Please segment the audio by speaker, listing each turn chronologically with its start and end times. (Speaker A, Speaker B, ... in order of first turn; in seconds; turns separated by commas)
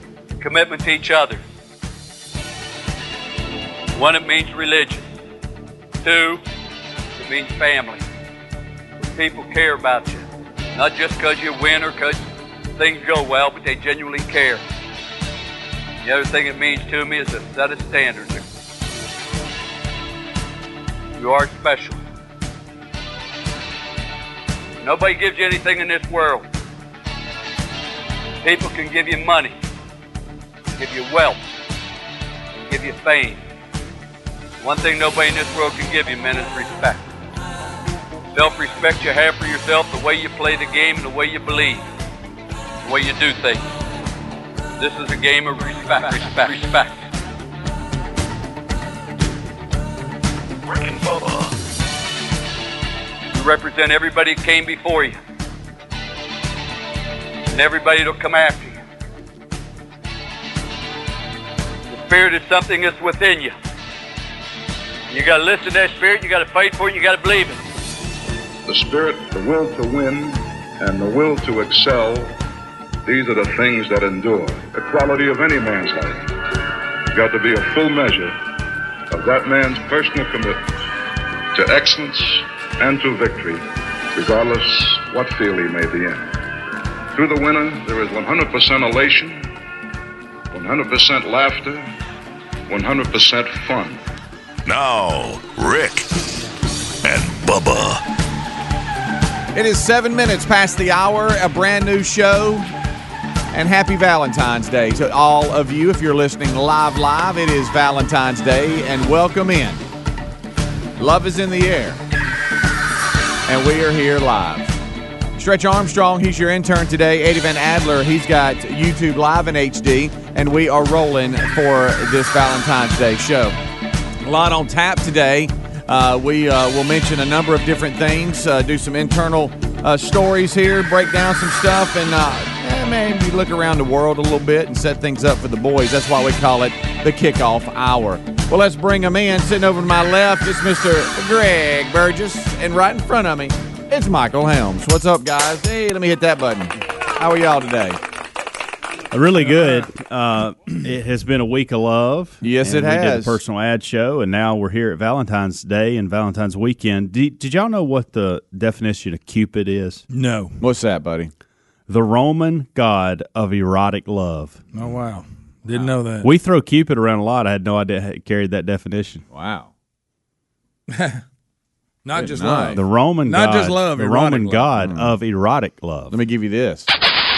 Speaker A: 0.4-1.4, Speaker A: 3.9-5.0, Speaker A: 6.0-6.4, Speaker A: 7.2-8.0, Speaker A: 9.0-12.2, Speaker A: 12.8-14.6, Speaker A: 16.0-18.4, Speaker A: 21.2-22.0, Speaker A: 24.8-26.4, Speaker A: 28.4-29.5, Speaker A: 30.8-31.4, Speaker A: 32.7-33.4, Speaker A: 34.6-37.0, Speaker A: 38.3-41.8, Speaker A: 42.8-43.6, Speaker A: 44.8-46.9, Speaker B: 50.7-51.5, Speaker A: 53.3-55.2, Speaker A: 57.5-58.8, Speaker A: 61.9-63.5, Speaker A: 65.1-67.6, Speaker C: 68.7-72.3, Speaker C: 73.0-76.3, Speaker C: 77.1-78.4, Speaker C: 79.1-80.6, Speaker C: 81.5-86.3, Speaker C: 87.1-89.5, Speaker C: 90.5-91.9, Speaker C: 92.7-94.0, Speaker B: 94.7-96.1, Speaker B: 97.0-98.0, Speaker D: 99.5-102.7, Speaker D: 103.5-109.8, Speaker D: 111.0-112.0, Speaker D: 113.5-114.8, Speaker D: 115.3-123.6, Speaker D: 124.2-148.0, Speaker E: 149.1-160.0, Speaker F: 149.5-149.9, Speaker D: 152.4-153.4, Speaker F: 160.1-160.6, Speaker D: 160.6-161.3, Speaker E: 161.9-164.6, Speaker F: 164.7-166.3, Speaker E: 166.2-169.2, Speaker D: 169.3-169.7, Speaker F: 170.9-171.2, Speaker F: 172.0-174.7, Speaker D: 172.1-172.8, Speaker E: 172.7-176.2, Speaker D: 174.8-175.1, Speaker D: 176.1-176.9